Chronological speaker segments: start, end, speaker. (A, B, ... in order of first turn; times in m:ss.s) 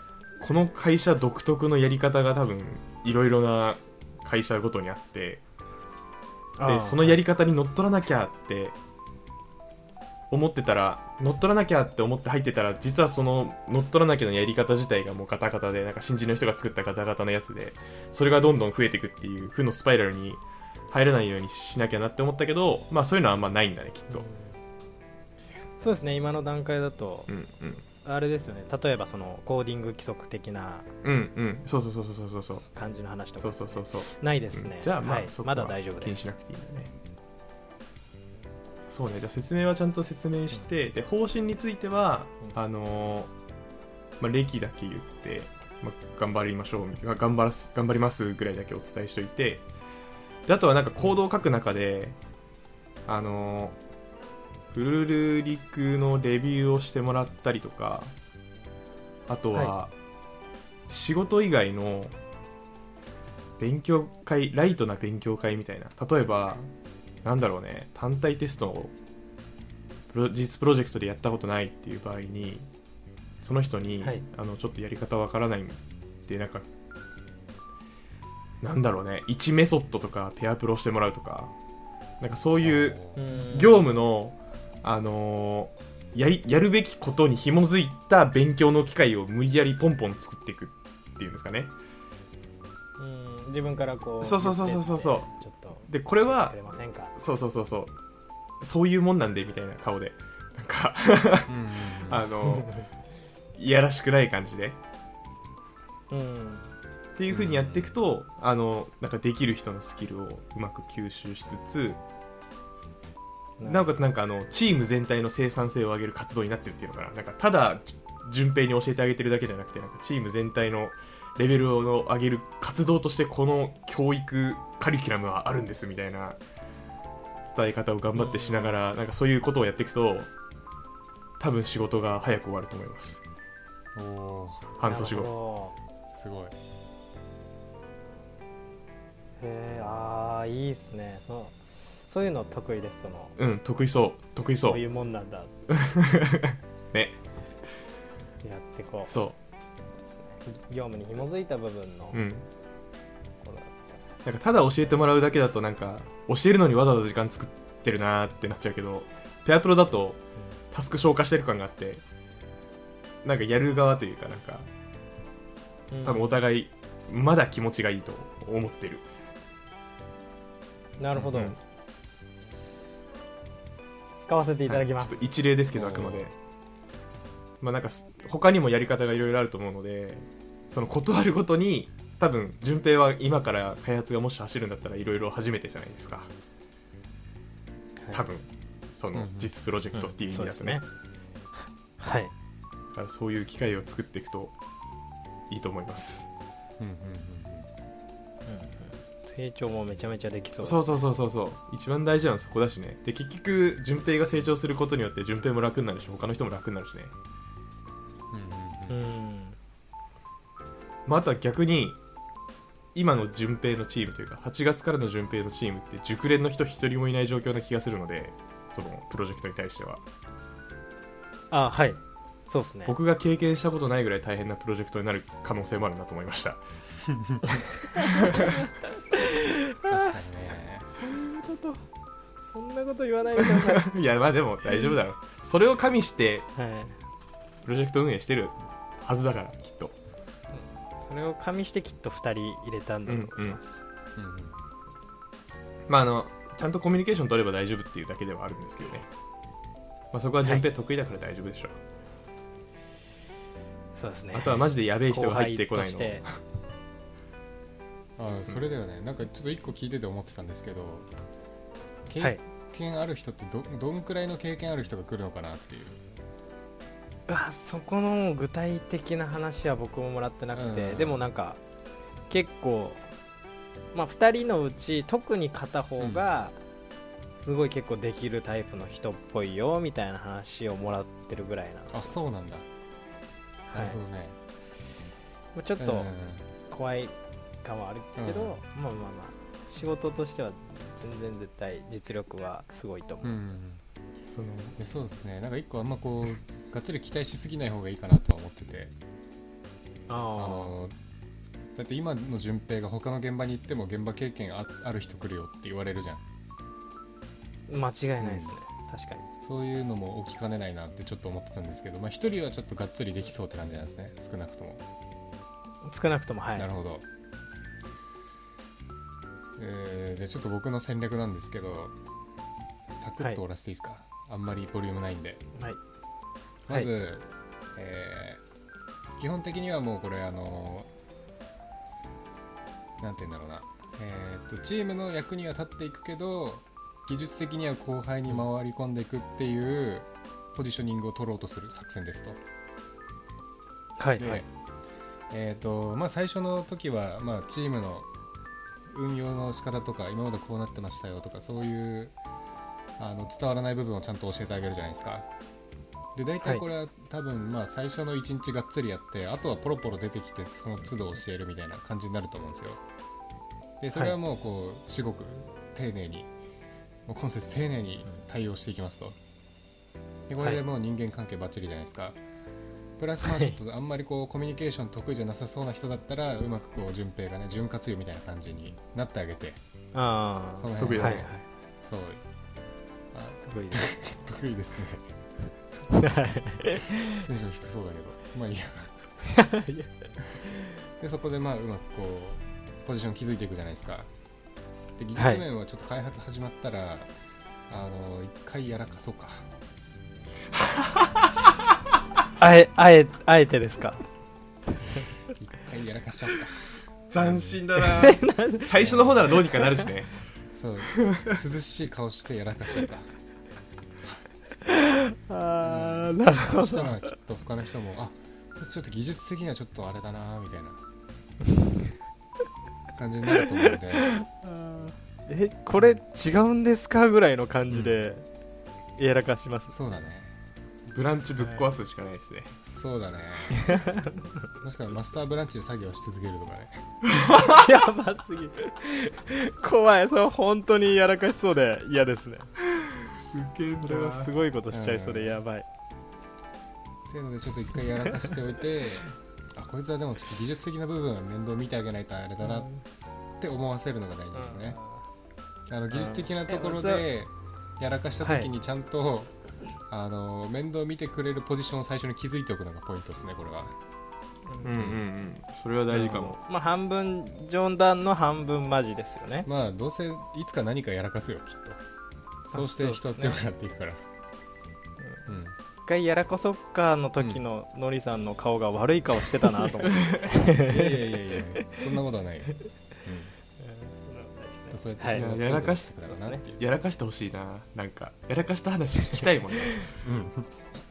0:00.4-0:05.4 A
0:06.6-0:07.2 B
0:06.6-0:08.8 A
0:10.3-0:24.3 A
0:24.1-0:24.6 B
0:25.8-0:27.3 B
0:27.3-0:27.8 A
0:28.0-0:30.9 B
0:31.0-0:32.7 A
0:32.7-0:36.3 B
0:33.4-0:36.9 A
0:38.9-0:43.3 A
0:44.2-0:49.6 A
0:50.5-0:52.2 A
0:53.1-0:53.8 A
0:54.7-0:58.1 A
0:59.3-0:59.9 A
1:00.9-1:02.1 A
1:03.6-1:06.7 A
1:07.2-1:08.9 A
1:10.1-1:12.7 A
1:13.4-1:16.6 A
1:18.6-1:21.5 A
1:22.2-1:23.0 A
1:22.6-1:23.2 C
1:23.2-1:23.9 B
1:23.5-1:31.7 A
1:33.0-1:37.1 B
1:34.2-1:35.3 A
1:35.9-1:36.6 A
1:37.1-1:37.9 A
1:38.6-1:42.7 A
1:41.5-1:42.3 C
1:42.5-1:42.9 B
1:43.6-1:44.8 A
1:46.1-1:46.6 B
1:47.2-1:52.0 A
1:47.3-1:48.0 C
1:53.6-1:53.8 B
1:53.6-2:06.4 A
2:07.5-2:10.3 A
2:08.2-2:08.8 B
2:11.4-2:13.2 A
2:14.0-2:14.7 C
2:14.8-2:15.3 A
2:14.8-2:15.8 B
2:16.1-2:16.6 C
2:19.4-2:23.4 B
2:23.4-2:24.8 A
2:24.7-2:25.5 B
2:25.7-2:27.2 A
2:28.4-2:29.2 B
2:29.1-2:29.4 A
2:30.0-2:32.2 B
2:32.1-2:32.4 A
2:33.4-2:34.0 B
2:34.2-2:42.0 A
2:43.2-2:44.7 A
2:45.9-2:46.4 B
2:46.0-2:49.0 A
2:51.0-2:51.6 B
2:51.2-2:51.6 A
2:54.2-2:55.3 B
2:54.7-2:56.3 A
2:55.7-2:56.3 C
2:57.6-3:06.3 A
3:08.0-3:08.3 B
3:08.1-3:08.5 A
3:09.0-3:10.8 A
3:09.1-3:09.5 C
3:09.9-3:10.8 B
3:12.0-3:12.3 B
3:12.9-3:14.5 A
3:15.5-3:16.3 A
3:16.8-3:17.7 C
3:18.5-3:21.0 B
3:20.6-3:27.1 A
3:28.3-3:29.0 C
3:28.9-3:29.6 B
3:31.1-3:32.0 A
3:32.9-3:40.0 A
3:41.5-3:43.0 B
3:42.9-3:46.6 A
3:47.0-3:47.6 C
3:48.0-3:50.1 B
3:49.9-3:50.9 C
3:50.9-3:51.8 B
3:52.5-3:53.9 B
3:53.6-3:56.5 A
3:56.6-3:57.0 B
3:57.6-4:00.0 A
4:00.5-4:03.6 B
4:03.1-4:03.6 A
4:04.2-4:04.6 C
4:05.9-4:09.1 A
4:10.1-4:11.8 A
4:14.0-4:16.2 B
4:14.3-4:16.4 A
4:18.2-4:21.1 C
4:22.1-4:26.0 C
4:27.3-4:31.6 B
4:30.5-4:31.2 C
4:32.3-4:33.0 B
4:33.9-4:36.6 B
4:36.0-4:36.2 C
4:37.4-4:42.2 B
4:41.9-4:42.7 C
4:43.7-4:44.0 B
4:43.7-4:44.4 C
4:45.6-4:46.1 B
4:45.8-4:46.5 C
4:46.7-4:53.4 B
4:48.2-4:48.6 C
4:53.2-4:53.8 C
4:54.3-4:54.8 A
4:54.8-4:58.9 C
5:00.1-5:00.8 B
5:00.4-5:01.0 C
5:01.8-5:06.2 C
5:07.7-5:09.3 B
5:08.2-5:08.6 C
5:09.4-5:14.8 C
5:15.8-5:16.7 B
5:16.6-5:17.0 C
5:19.6-5:22.0 C
5:22.9-5:25.4 C
5:26.7-5:28.4 C
5:29.2-5:30.9 C
5:33.0-5:42.4 C
5:44.0-5:44.4 B
5:44.2-5:44.5 C
5:45.3-5:48.1 C
5:48.9-5:52.2 C
5:53.0-5:55.3 C
5:56.2-6:02.8 C
6:03.8-6:06.3 C
6:07.1-6:09.2 C
6:10.3-6:12.2 C
6:13.0-6:19.6 C
6:13.2-6:13.6 B
6:19.9-6:21.4 B
6:20.6-6:21.3 C
6:20.8-6:21.3 A
6:21.8-6:22.2 C
6:23.1-6:25.1 C
6:23.5-6:23.9 B
6:25.9-6:27.3 B
6:27.2-6:29.0 C
6:29.3-6:30.7 B
6:31.0-6:34.1 C
6:35.0-6:37.1 C
6:35.2-6:35.4 B
6:37.7-6:39.5 C
6:40.8-6:41.3 A
6:42.4-6:44.0 B
6:45.4-6:46.6 C
6:47.1-6:50.2 A
6:47.2-6:47.6 C
6:48.0-6:48.7 B
6:48.8-6:49.4 C
6:50.6-6:53.1 C
6:50.9-6:51.4 A
6:54.6-6:57.1 B
6:55.6-7:00.8 C
7:03.0-7:04.1 C
7:04.0-7:08.3 B
7:07.7-7:08.0 C
7:09.0-7:09.8 B
7:09.7-7:10.4 C
7:10.9-7:12.6 A
7:12.7-7:13.8 C
7:13.6-7:14.2 B
7:14.6-7:16.8 C
7:17.2-7:17.5 A
7:17.4-7:22.5 B
7:22.8-7:24.3 A
7:23.8-7:25.7 B
7:24.7-7:25.4 C
7:27.1-7:32.7 C
7:32.4-7:32.8 B
7:33.4-7:34.8 C
7:34.4-7:35.0 B
7:35.7-7:39.3 C
7:35.9-7:37.1 B
7:38.2-7:38.5 B
7:39.9-7:43.8 C
7:44.6-7:46.4 A
7:45.9-7:46.4 C
7:46.4-7:49.5 B
7:49.4-7:51.8 C
7:52.5-7:54.0 C
7:52.5-7:53.4 B
7:55.0-7:55.3 B
7:55.3-7:55.6 C
7:55.8-8:01.8 B
8:00.5-8:03.3 C
8:03.6-8:06.4 B
8:04.7-8:06.6 C
8:05.1-8:05.9 A
8:06.6-8:09.8 A
8:09.1-8:09.9 B
8:10.0-8:10.6 C